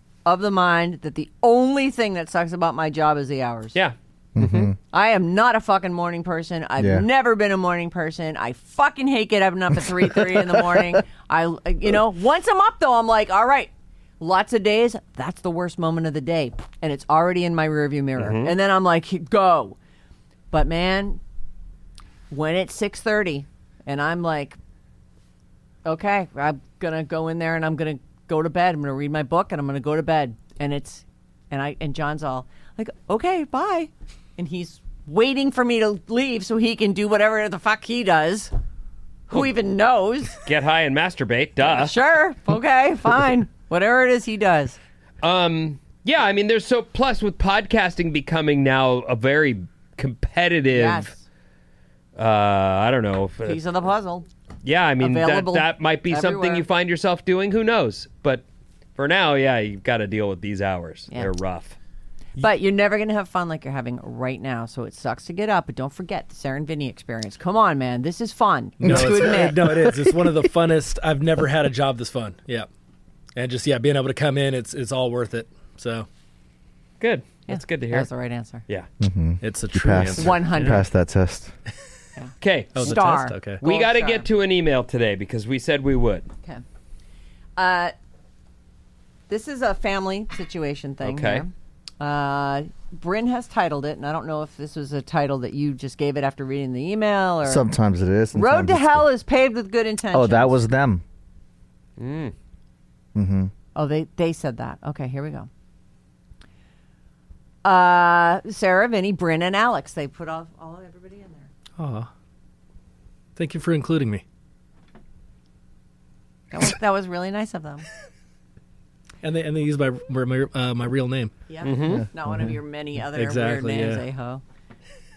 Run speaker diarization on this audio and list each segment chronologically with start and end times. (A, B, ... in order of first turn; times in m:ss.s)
0:00.2-0:03.8 A
0:03.8-0:04.7 B
0:04.4-0:04.8 C
0:04.9-0:19.8 A
0:06.8-0:07.0 C
0:10.3-0:10.8 C
0:18.2-0:18.5 B
0:20.5-0:21.2 A
0:22.3-0:24.6 A
0:25.8-0:38.5 A
0:39.3-0:40.4 A
0:40.4-0:41.9 B
0:41.6-0:44.8 A
0:45.2-0:51.1 B
0:50.7-0:51.2 A
0:52.2-0:53.6 B
0:53.4-0:54.2 A
0:54.6-0:58.4 B
0:55.0-0:56.6 A
0:59.0-1:01.8 B
1:02.4-1:09.7 A
1:08.8-1:12.7 D
1:08.8-1:10.5 C
1:13.4-1:16.1 D
1:17.0-1:18.1 B
1:17.5-1:18.6 A
1:19.0-1:21.5 C
1:19.4-1:20.4 D
1:20.2-1:20.9 A
1:22.2-1:24.3 A
1:22.4-1:23.0 B
1:22.7-1:23.6 D
1:23.6-1:26.3 B
1:27.6-1:27.9 A
1:29.3-1:37.7 A
1:31.0-1:31.4 B
1:37.4-1:39.1 C
1:38.4-1:40.6 A
1:40.1-1:41.0 C
1:42.0-1:42.3 B
1:43.2-1:43.5 C
1:43.8-1:45.5 A
1:47.6-1:51.5 A
1:51.8-1:52.1 D
1:53.4-1:54.2 D
1:56.5-1:57.9 A
1:59.2-2:01.3 D
2:01.5-2:04.4 A
2:01.6-2:02.0 B
2:01.9-2:02.5 C
2:03.1-2:04.1 D